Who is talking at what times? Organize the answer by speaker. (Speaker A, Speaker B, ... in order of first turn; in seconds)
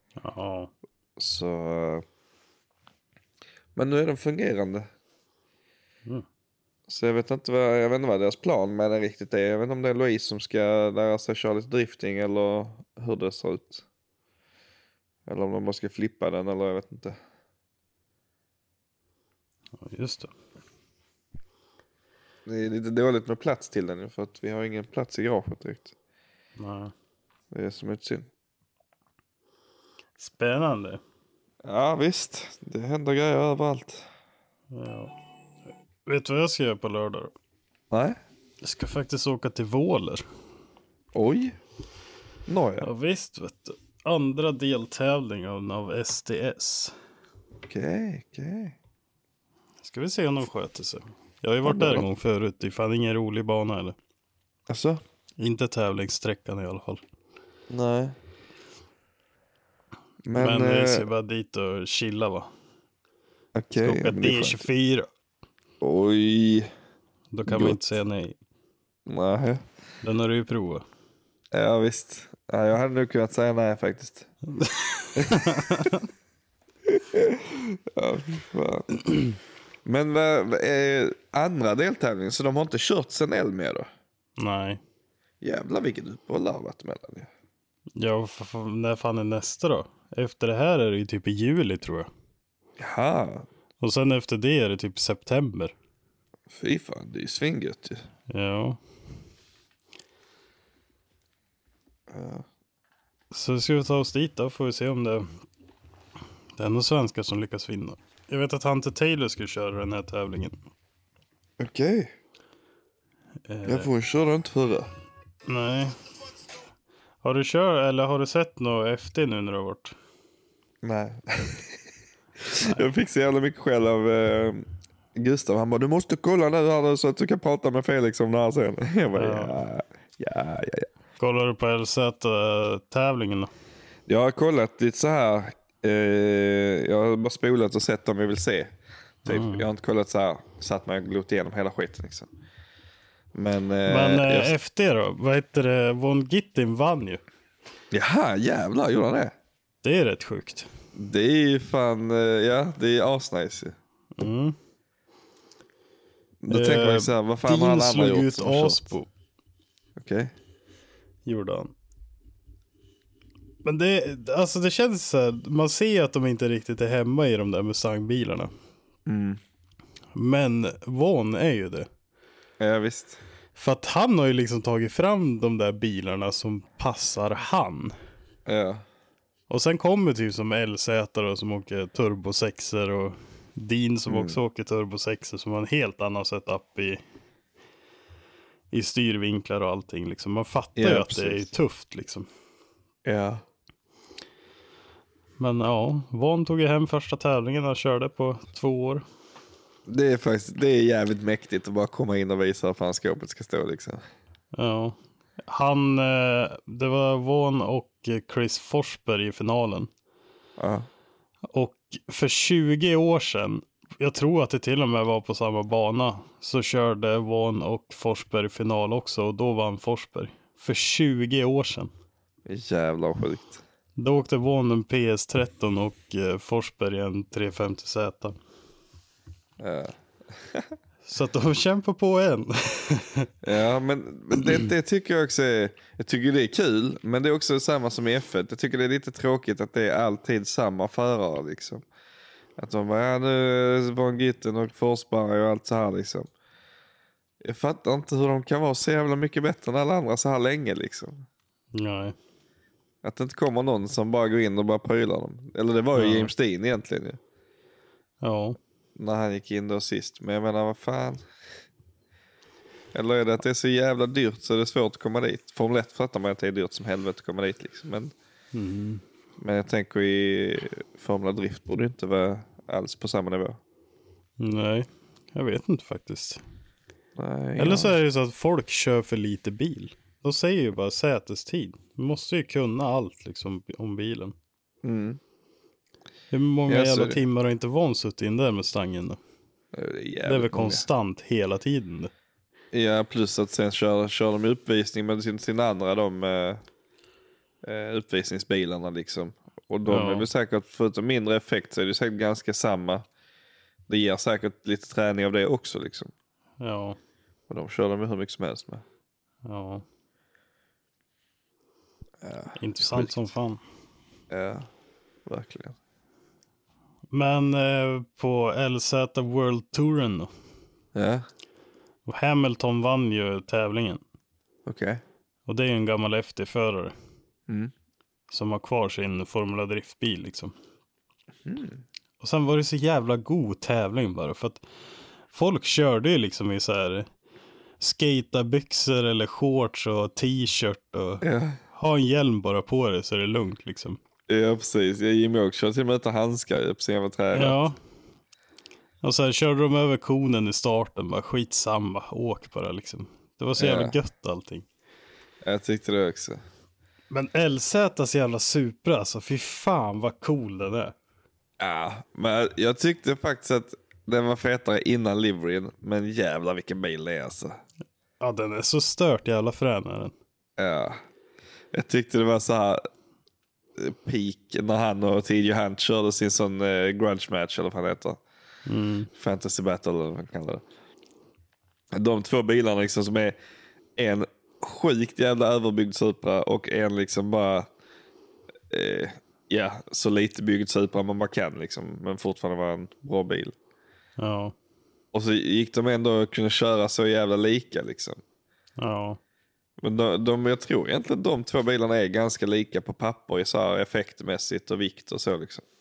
Speaker A: 0.2-0.7, 19.8-20.3, 26.6-26.9, 30.2-31.0, 34.7-35.1, 36.0-37.3, 38.6-40.2, 42.8-46.9, 49.8-54.0, 55.4-57.0, 60.3-62.5, 63.8-65.1, 67.3-68.3, 70.0-70.8, 74.5-76.1, 84.4-84.8, 88.0-92.1, 93.8-95.7, 98.3-98.8, 103.3-105.3, 106.6-110.5, 113.5-113.9, 115.5-115.9, 117.2-119.9, 129.1-129.5, 131.2-133.5, 139.2-139.7, 143.9-147.2, 149.8-150.7, 154.2-154.6, 156.5-159.1, 161.2-161.7, 163.6-168.5, 170.1-171.9, 173.6-177.9, 179.5-187.0, 188.7-192.3, 195.4-199.0, 204.5-204.9, 205.5-209.9, 211.5-221.9, 224.0-228.3, 231.1-233.3, 251.7-252.1, 255.9-256.3, 258.2-258.6, 268.5-269.0, 274.4-276.4, 277.6-284.3, 286.3-289.2, 290.2-292.1, 299.9-300.3, 306.6-307.0, 309.4-309.8, 312.6-313.6, 317.1-320.3, 322.1-324.0, 325.5-326.9, 328.3-330.5, 332.2-334.6, 335.3-337.1, 337.8-344.0, 347.3-347.8, 349.0-354.6, 357.1-360.9, 368.2-370.1, 378.6-379.1, 394.2-394.5, 398.8-399.2
Speaker B: 1.2-2.0, 3.8-4.9, 6.9-13.8, 15.2-17.2, 22.4-25.9, 27.5-28.3, 31.6-34.1, 37.9-38.2, 41.1-41.6, 42.5-42.9, 47.7-48.7, 51.6-52.0, 54.7-55.0, 57.7-58.1, 60.2-61.1, 63.5-64.6, 65.8-66.7, 67.5-67.8, 69.1-69.6, 71.5-74.3, 75.2-75.9, 76.8-79.0, 79.8-83.9, 85.4-87.3, 92.8-93.5, 96.5-98.0, 102.1-102.5, 111.6-112.1, 113.6-114.9, 120.8-121.8, 122.4-130.9, 134.1-138.7, 139.2-142.3, 143.3-144.5, 147.9-149.3, 150.9-153.8, 156.4-158.9, 159.9-160.3, 169.1-169.4, 172.6-173.2, 178.4-178.8, 184.1-184.4, 190.8-191.5, 193.0-193.4, 199.9-204.0, 210.6-210.9, 222.4-223.6, 229.6-230.7, 233.4-241.8, 242.6-246.3, 247.4-251.2, 253.0-257.2, 258.9-261.2, 262.9-268.1, 269.4-273.6, 277.1-277.9, 284.8-285.2, 286.7-287.2, 289.7-290.9, 292.7-296.6, 297.6-303.1, 303.9-306.1, 307.5-308.8, 312.2-313.2, 314.3-314.7, 315.2-315.8, 320.9-321.2, 324.6-325.0, 331.4-331.8, 341.2-341.6, 344.3-347.6, 353.6-353.9, 355.4-356.4, 361.6-367.6, 370.6-371.0, 371.7-372.9, 373.8-378.2, 379.1-380.6, 381.9-383.4, 383.9-387.7, 388.7-393.5, 395.1-398.2, 399.8-405.6